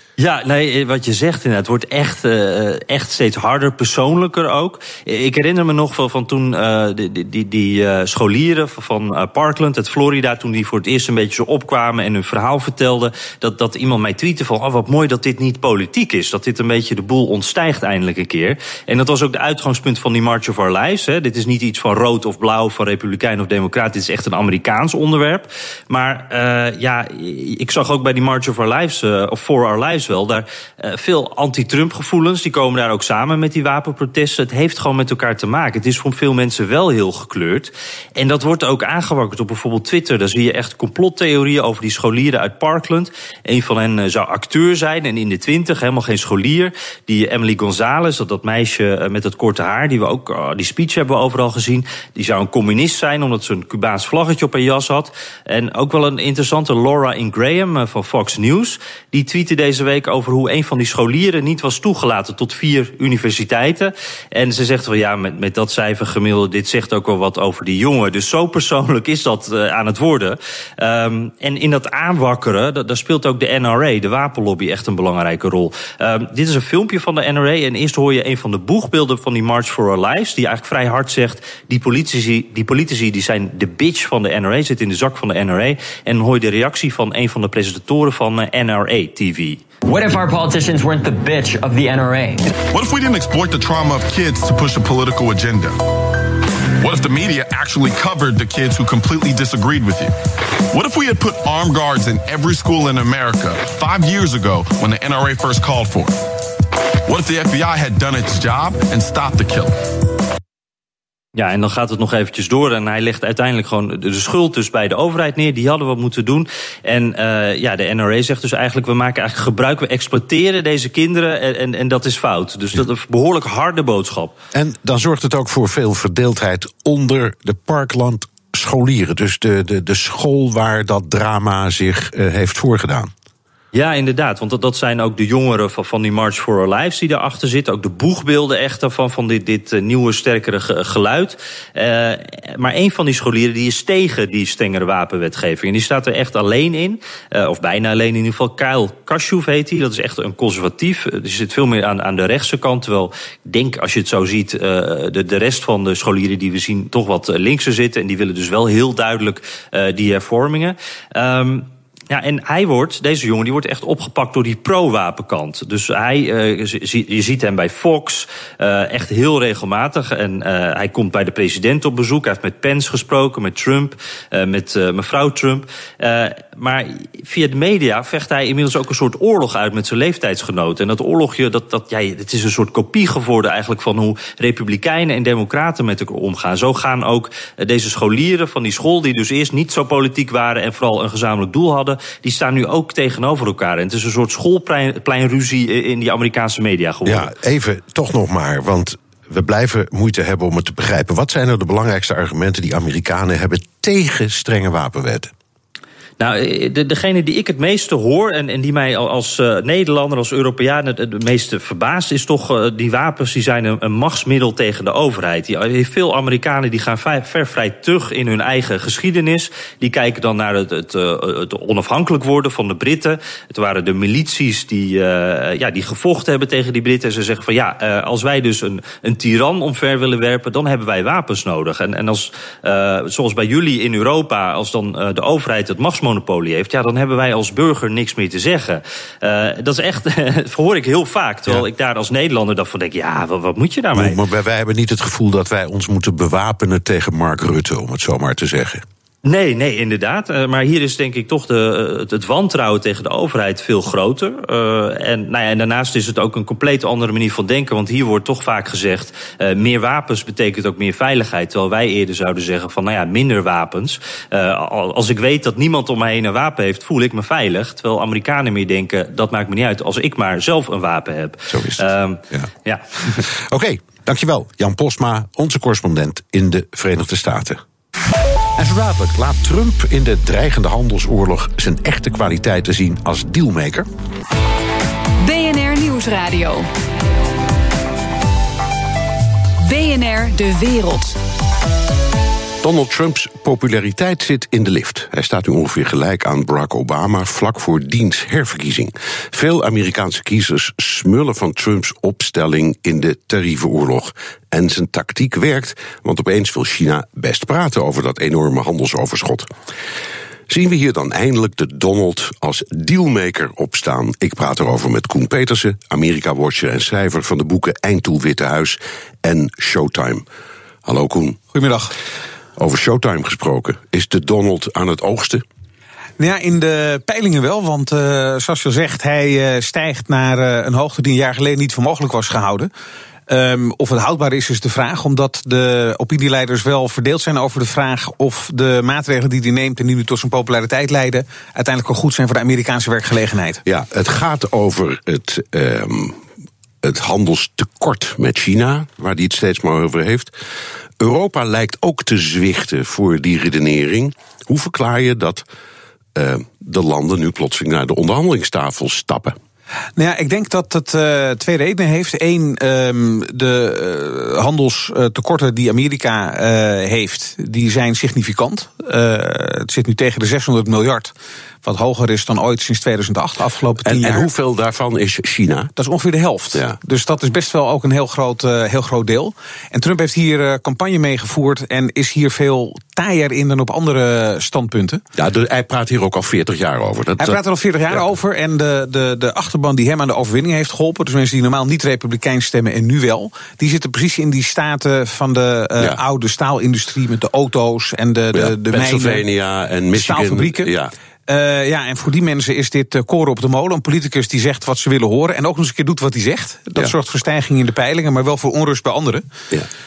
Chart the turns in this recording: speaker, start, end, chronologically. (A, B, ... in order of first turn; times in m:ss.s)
0:00.2-1:29.6 A
1:29.8-1:32.5 B
1:32.7-1:35.8 C
1:36.8-1:40.1 C
1:40.7-1:46.2 C
1:47.0-1:49.8 C
1:51.3-2:04.3 A
2:04.5-2:13.1 D
2:13.7-3:17.3 A
3:17.0-3:25.3 D
3:26.2-4:04.2 A
4:03.9-4:08.8 D
4:09.2-4:33.2 A
4:31.5-4:32.5 D
4:33.2-4:37.6 D
4:38.6-4:43.9 D
4:45.2-4:46.7 E
4:49.6-4:51.2 E
4:52.6-5:09.5 D
5:10.5-5:20.2 D
5:20.8-5:21.4 D
5:21.5-5:21.9 F
5:22.6-5:25.4 D
5:26.2-5:32.7 F
5:33.3-5:43.6 F
5:43.6-5:46.2 D
5:46.8-5:50.4 D
5:51.0-5:55.4 D
5:56.1-5:59.4 D
6:00.0-6:14.3 F
6:13.8-6:15.7 D
6:15.8-6:25.0 F
6:25.1-6:27.4 D
6:27.2-6:39.2 F
6:38.3-6:40.9 D
6:39.9-6:40.7 F
6:41.3-6:49.3 F